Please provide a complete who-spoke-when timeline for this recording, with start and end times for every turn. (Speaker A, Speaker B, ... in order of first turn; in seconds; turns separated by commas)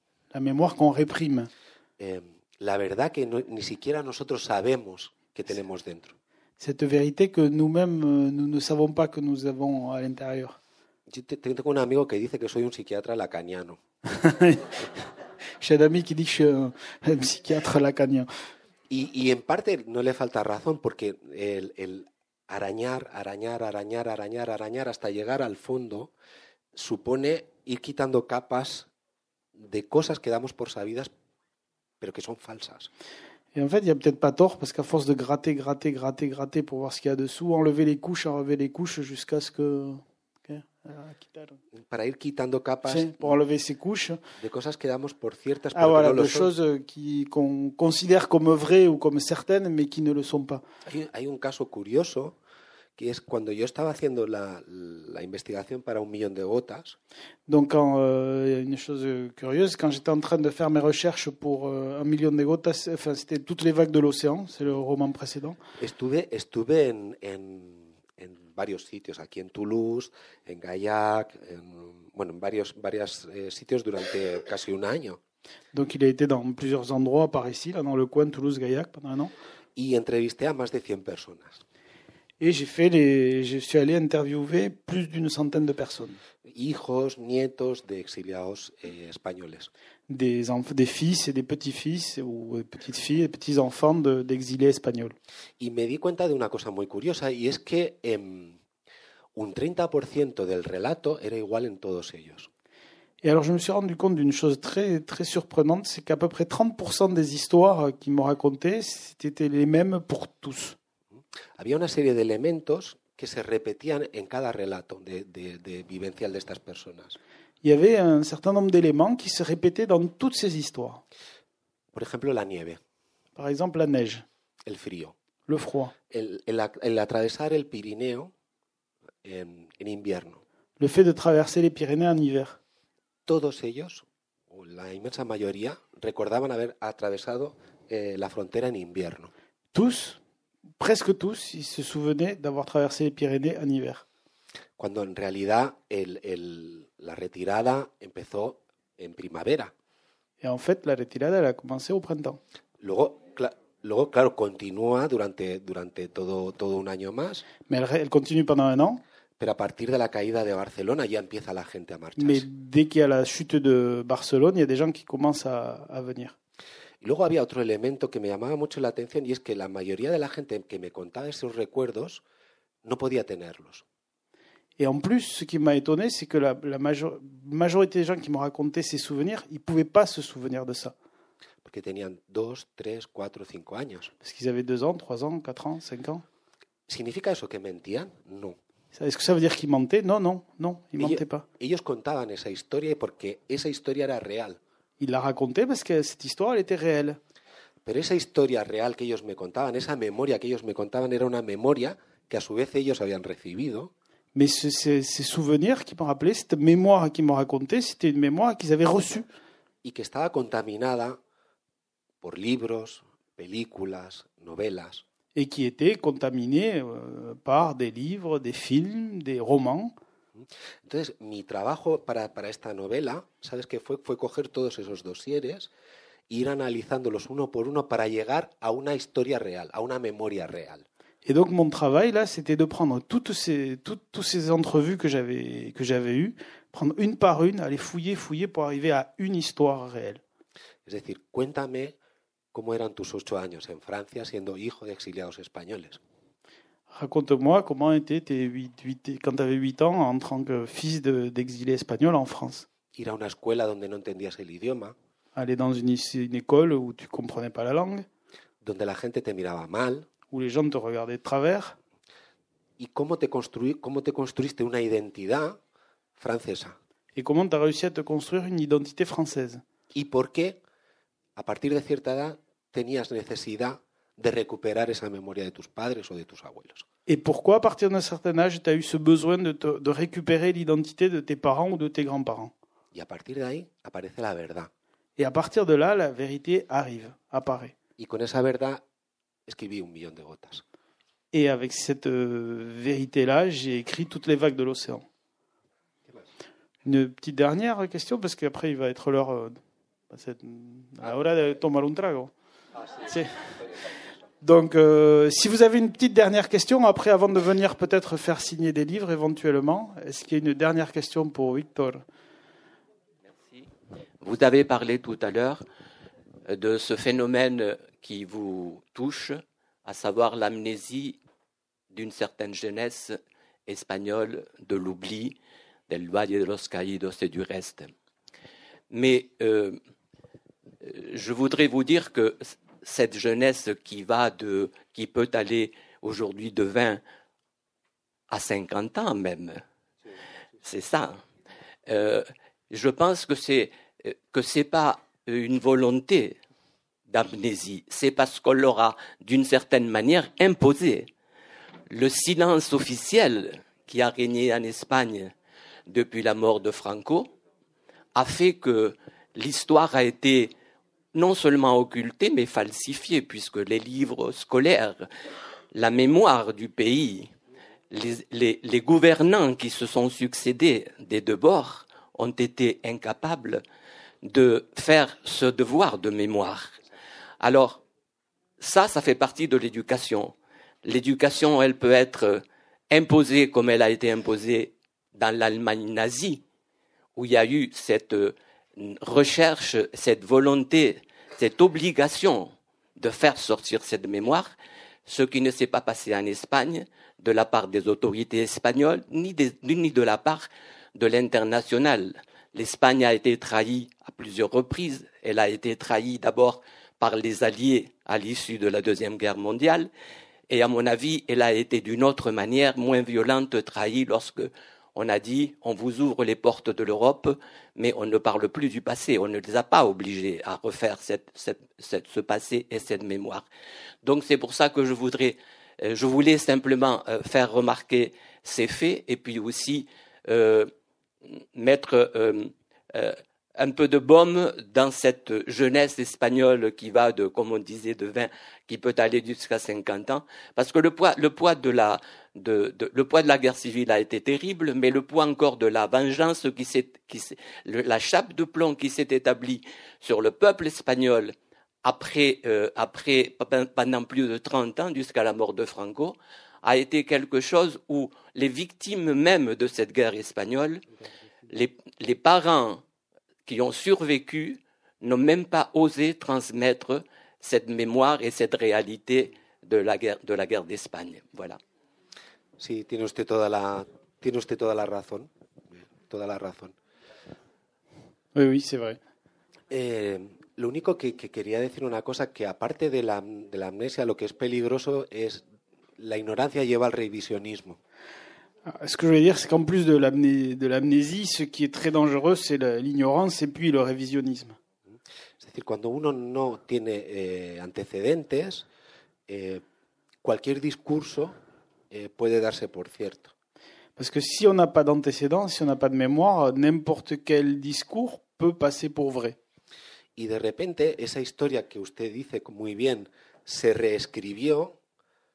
Speaker A: 0.3-1.5, Speaker B: 2.0-6.2, Speaker A: 6.6-10.6, Speaker B: 11.1-13.8, Speaker A: 14.1-14.9, Speaker A: 15.6-18.3, Speaker B: 18.9-26.1, Speaker B: 26.7-28.9, Speaker B: 29.6-31.1, Speaker B: 32.0-32.9, Speaker A: 33.5-41.6, Speaker B: 41.8-43.3, Speaker A: 42.8-44.2, Speaker B: 44.4-46.5, Speaker A: 45.7-50.6, Speaker B: 50.9-52.4, Speaker B: 53.0-57.0, Speaker A: 57.5-65.6, Speaker B: 65.8-75.2, Speaker A: 75.7-79.3, Speaker B: 79.8-81.6, Speaker A: 82.4-86.2, Speaker B: 86.4-89.7, Speaker A: 90.1-95.2, Speaker B: 95.6-98.6, Speaker B: 99.3-102.5, Speaker A: 103.2-110.8, Speaker B: 111.6-117.2, Speaker A: 117.6-121.0, Speaker B: 121.9-122.8, Speaker A: 123.3-124.2, Speaker B: 124.6-125.1, Speaker A: 125.5-125.9, Speaker B: 126.1-128.3, Speaker B: 129.2-130.4, Speaker A: 130.8-132.6, Speaker B: 133.2-139.3, Speaker A: 139.7-140.2, Speaker A: 140.8-144.0, Speaker B: 144.8-149.7, Speaker A: 150.4-152.4, Speaker B: 152.8-157.4, Speaker A: 157.7-159.0, Speaker B: 159.4-162.4, Speaker A: 162.2-166.3, Speaker B: 167.0-172.2, Speaker B: 172.8-173.8, Speaker A: 174.8-180.9, Speaker B: 181.6-184.1, Speaker A: 184.2-186.2, Speaker B: 186.9-188.6, Speaker A: 188.9-191.4, Speaker B: 191.0-194.6, Speaker A: 195.0-197.2, Speaker B: 197.8-203.9, Speaker A: 204.3-209.3, Speaker B: 209.8-211.2, Speaker B: 212.2-215.0, Speaker A: 215.3-219.9, Speaker B: 220.4-225.7, Speaker B: 226.3-230.8, Speaker A: 231.2-240.2, Speaker B: 240.8-241.9, Speaker B: 242.5-246.0, Speaker A: 246.9-252.7, Speaker B: 252.9-254.9, Speaker A: 255.3-258.1, Speaker B: 258.6-260.1, Speaker A: 260.3-261.8, Speaker B: 262.8-265.6, Speaker B: 266.2-266.8, Speaker A: 267.1-269.6, Speaker B: 269.9-270.6, Speaker B: 271.4-276.8, Speaker A: 277.1-282.5, Speaker B: 282.9-284.7, Speaker A: 285.2-287.7, Speaker B: 288.0-288.8, Speaker B: 289.5-290.6, Speaker A: 291.3-295.0, Speaker A: 296.8-302.3, Speaker A: 303.0-303.6, Speaker A: 304.4-312.0, Speaker C: 313.4-313.7, Speaker C: 314.2-315.6, Speaker C: 316.5-321.2, Speaker C: 321.9-325.4, Speaker C: 325.9-327.9, Speaker C: 328.9-329.8, Speaker C: 330.8-337.0, Speaker C: 338.3-339.6, Speaker C: 340.6-341.2, Speaker C: 341.9-346.4, Speaker C: 347.1-351.1, Speaker C: 351.9-355.3, Speaker C: 355.9-357.3, Speaker C: 358.1-360.5, Speaker C: 361.1-365.1, Speaker C: 365.7-367.3, Speaker C: 367.9-373.6, Speaker C: 374.2-376.8, Speaker C: 377.4-377.8, Speaker C: 378.6-386.4, Speaker C: 387.1-394.5, Speaker C: 395.1-409.9, Speaker C: 410.5-423.4, Speaker C: 424.0-430.7, Speaker C: 431.4-460.8, Speaker C: 461.5-462.8, Speaker C: 463.4-471.6, Speaker B: 472.6-476.7, Speaker A: 478.3-479.0, Speaker B: 479.7-485.4, Speaker B: 486.0-487.8, Speaker A: 488.6-494.6, Speaker B: 495.4-498.7, Speaker B: 499.3-499.6, Speaker B: 500.2-501.4, Speaker B: 501.9-503.3, Speaker A: 504.0-509.4, Speaker B: 510.1-514.8